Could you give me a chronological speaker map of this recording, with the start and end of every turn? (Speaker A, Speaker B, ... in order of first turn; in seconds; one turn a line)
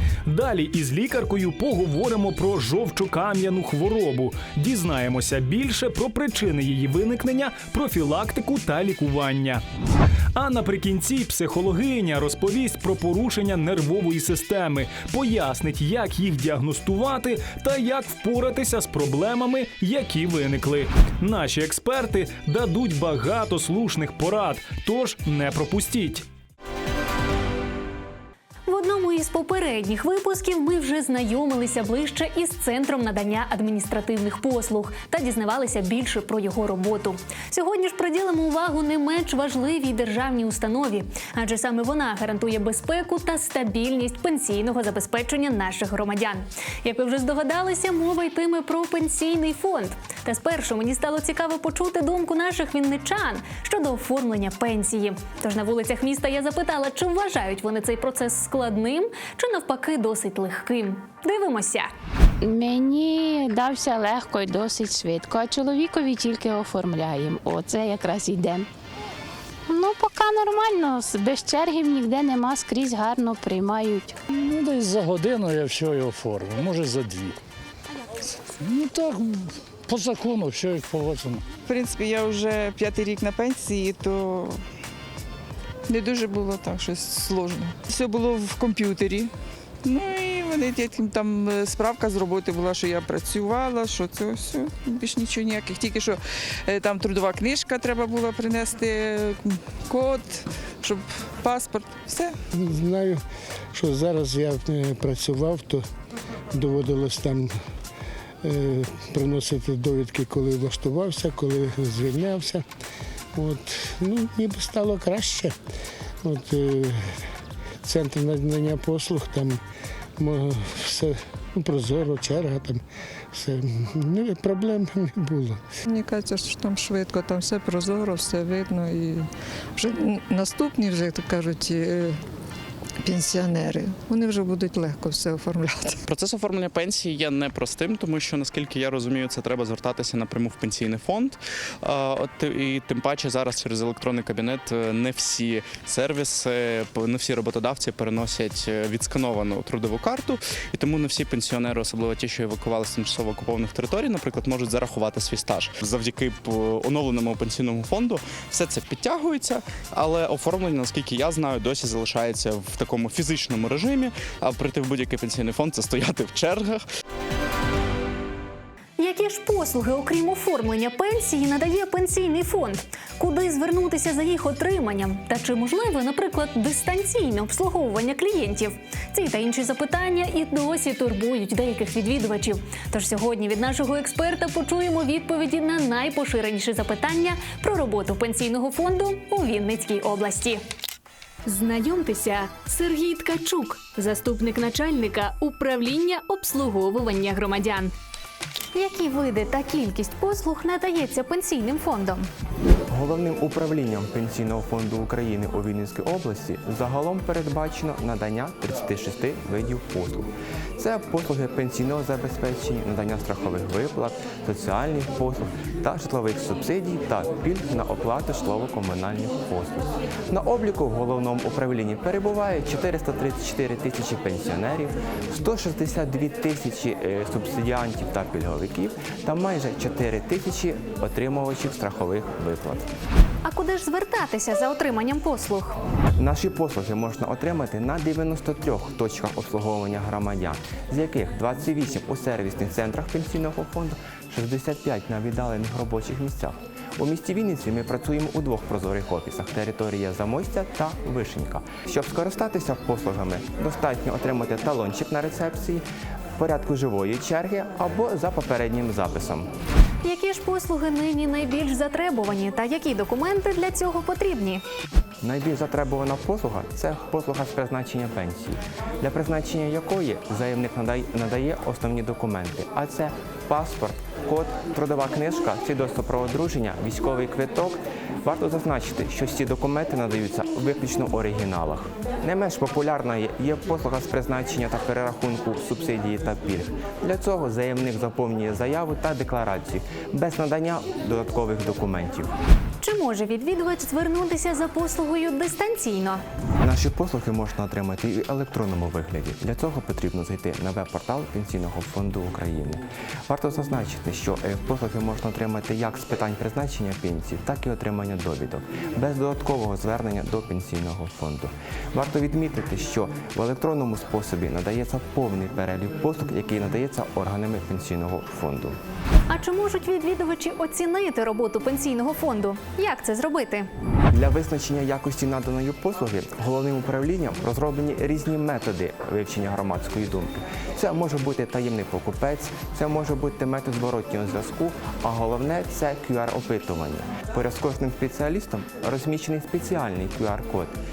Speaker A: 0.2-9.6
Speaker A: 10.3-26.2
Speaker B: 28.7-61.9
Speaker C: 62.4-68.7
Speaker C: 69.7-74.1
Speaker D: 74.4-77.3
Speaker D: 78.6-81.4
Speaker E: 81.6-84.6
Speaker E: 85.9-89.3
Speaker E: 89.8-102.4
Speaker F: 102.5-103.2
Speaker F: 103.7-105.8
Speaker F: 106.5-107.5
Speaker F: 108.4-112.6
Speaker F: 113.3-115.5
Speaker F: 116.2-117.0
Speaker F: 117.8-119.6
Speaker F: 120.2-122.8
Speaker F: 123.3-125.6
Speaker G: 125.9-132.2
Speaker G: 133.0-136.0
Speaker H: 136.1-141.3
Speaker H: 141.9-166.8
Speaker B: 169.0-190.6
Speaker B: 191.4-197.8
Speaker B: 198.7-202.2
Speaker I: 202.9-232.9
Speaker B: 233.4-235.8
Speaker I: 236.2-255.8
Speaker I: 256.4-259.5
Speaker B: 260.0-264.6
Speaker I: 265.2-292.3
Speaker B: 292.8-296.2
Speaker I: 296.6-318.8
Speaker B: 319.3-323.7
Speaker I: 324.1-340.8